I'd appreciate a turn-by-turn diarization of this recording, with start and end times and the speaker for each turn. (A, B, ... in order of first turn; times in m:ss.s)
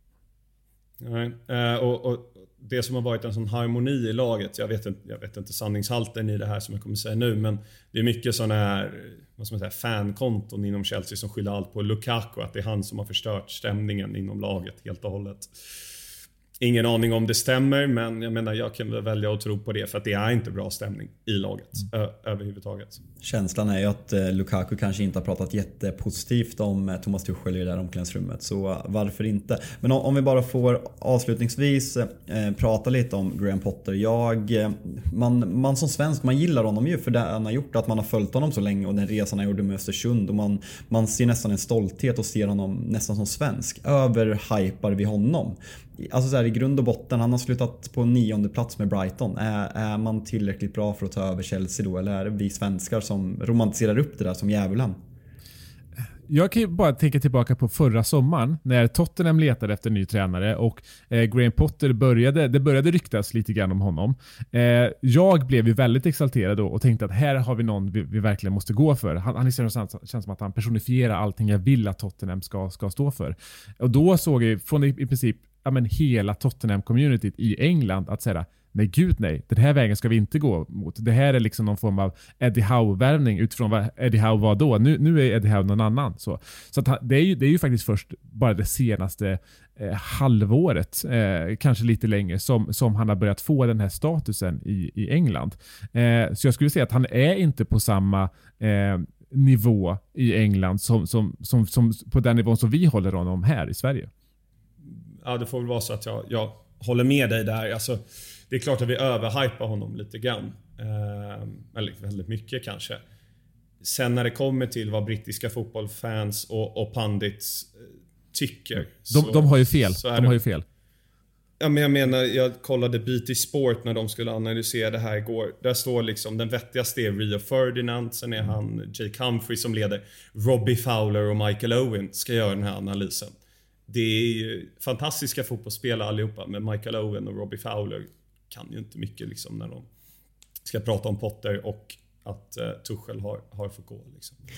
0:01.0-0:15.5 A
0:16.6-0:23.0 A
0:23.2-0:55.0 B
0:56.3-1:44.1 C
1:45.2-1:53.0 A
1:53.8-2:00.4 A
1:58.8-2:00.6 C
2:01.6-2:13.3 A
2:13.9-2:19.9 A
2:20.6-2:24.4 A